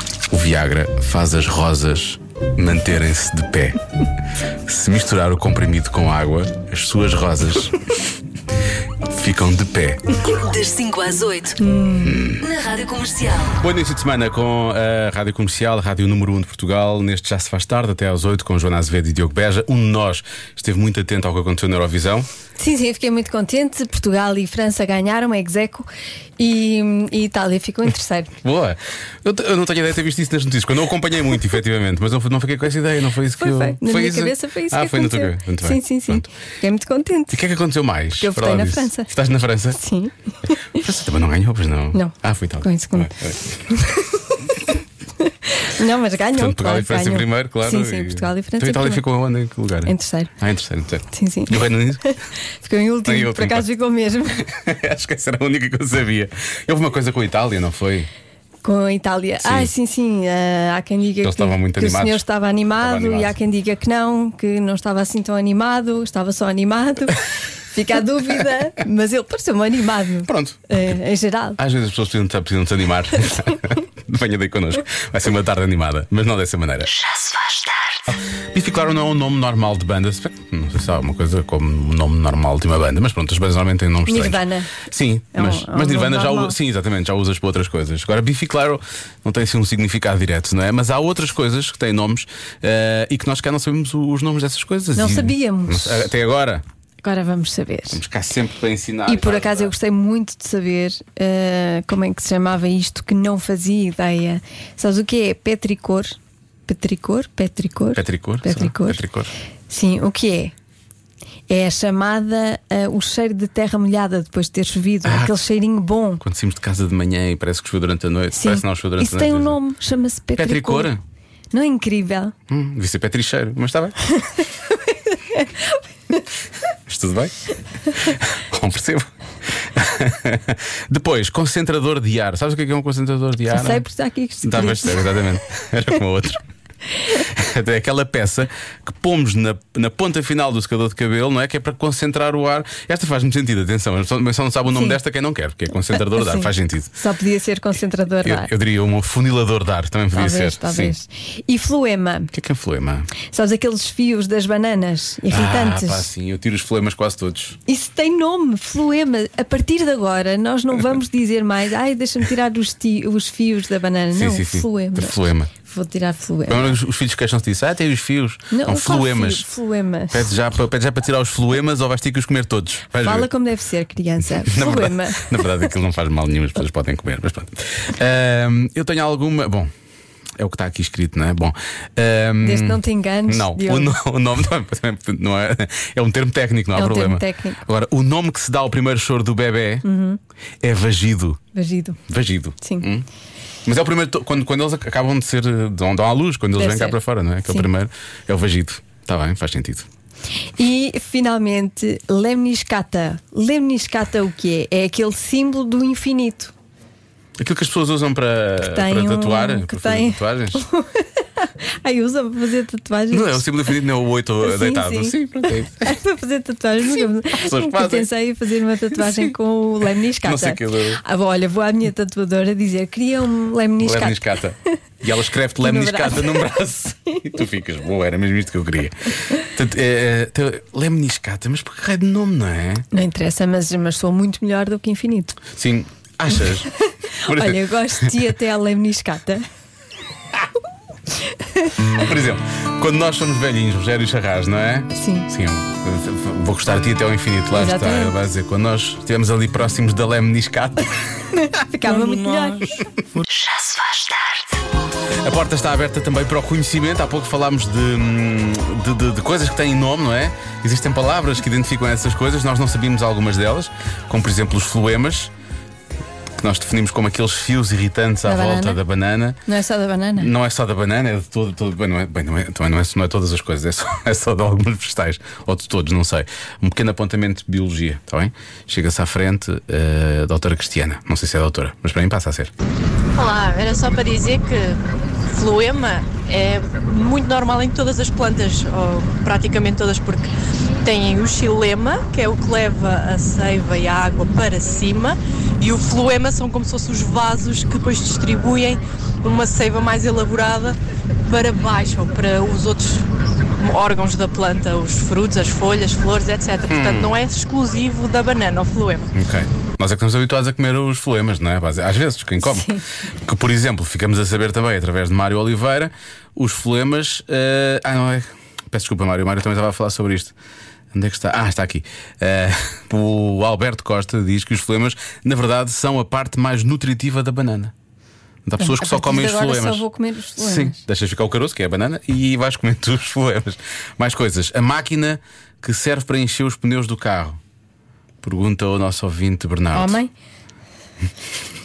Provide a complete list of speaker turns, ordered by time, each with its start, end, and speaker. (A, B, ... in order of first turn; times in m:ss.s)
0:00.3-0:03.8 A
0:04.6-0:07.9 A
0:09.1-0:10.3 A
0:10.2-0:11.6 B
0:11.6-0:12.2 C
0:12.0-0:12.4 A
0:12.4-0:13.5 B
0:13.6-0:22.3 A
0:22.6-0:25.9 C
0:26.4-0:28.3 C
0:28.4-0:36.2 A
0:33.4-0:37.4 C
0:37.3-0:39.8 A
0:38.2-0:39.1 C
0:39.7-0:40.8 C
0:40.7-0:43.6 A
0:41.9-0:43.1 C
0:43.7-0:44.4 C
0:45.2-0:49.0 C
0:46.3-0:52.1 A
0:49.8-0:50.3 C
0:51.1-0:51.6 C
0:52.6-0:54.4 C
0:53.0-0:53.6 A
0:54.4-0:58.1 A
0:58.6-1:11.6 C
0:59.4-0:59.7 A
1:01.2-1:02.2 A
1:02.8-1:03.3 A
1:10.2-1:10.6 A
1:11.6-1:16.9 A
1:16.9-1:18.0 B
1:18.1-1:36.6 A
1:24.0-1:24.7 C
1:25.3-1:26.6 C
1:35.0-1:36.1 C
1:37.0-1:38.0 C
1:37.9-1:39.7 A
1:39.0-1:49.0 C
1:47.9-1:49.3 A
1:49.7-1:50.5 C
1:51.5-1:56.2 C
1:55.0-1:55.4 A
1:56.2-1:59.6 A
1:58.4-2:00.9 C
2:00.4-2:01.0 A
2:01.5-2:02.3 C
2:02.5-2:04.0 A
2:04.9-2:06.2 C
2:06.9-2:07.3 A
2:07.9-2:13.8 A
2:13.5-2:15.1 C
2:14.4-2:16.4 A
2:17.1-2:26.9 A
2:24.7-2:25.0 C
2:26.0-2:28.5 C
2:28.2-2:30.9 A
2:30.1-2:32.3 C
2:32.3-2:33.1 A
2:33.3-2:36.1 C
2:35.3-2:37.6 A
2:37.7-2:46.7 C
2:44.1-2:45.5 A
2:46.5-2:49.4 A
2:48.5-2:50.2 C
2:50.1-2:53.3 A
2:53.0-2:55.4 C
2:54.4-2:59.7 A
3:00.4-3:09.8 A
3:02.4-3:04.0 C
3:06.7-3:07.6 C
3:09.8-3:10.2 C
3:10.6-3:11.4 A
3:11.5-3:12.0 C
3:12.1-3:13.1 A
3:12.6-3:12.9 C
3:13.6-3:19.9 A
3:16.6-3:17.7 C
3:20.6-3:26.5 C
3:27.4-3:30.6 A
3:28.7-3:33.4 C
3:33.1-3:35.9 A
3:34.4-3:35.2 C
3:35.8-3:44.2 C
3:37.3-3:38.1 A
3:38.9-3:39.3 A
3:40.2-3:41.0 A
3:43.8-3:52.9 A
3:45.6-3:46.4 C
3:52.9-3:55.4 C
3:55.5-3:56.7 A
3:56.8-3:59.5 C
3:57.2-3:58.3 A
4:01.2-4:01.8 C
4:02.0-4:11.2 A
4:04.9-4:05.3 C
4:07.5-4:08.1 C
4:11.3-4:12.8 C
4:13.3-4:14.6 B
4:15.2-4:25.3 A
4:26.4-4:29.4 A
4:28.2-4:28.8 C
4:29.5-4:30.3 C
4:30.2-4:42.5 A
4:43.2-5:03.0 D
5:03.6-5:09.1 D
5:06.7-5:07.2 A
5:09.1-5:20.3 A
5:12.4-5:12.8 C
5:20.9-5:27.7 A
5:28.4-5:29.8 A
5:28.6-5:30.8 C
5:30.4-5:37.4 A
5:38.2-5:40.0 A
5:39.7-5:40.1 C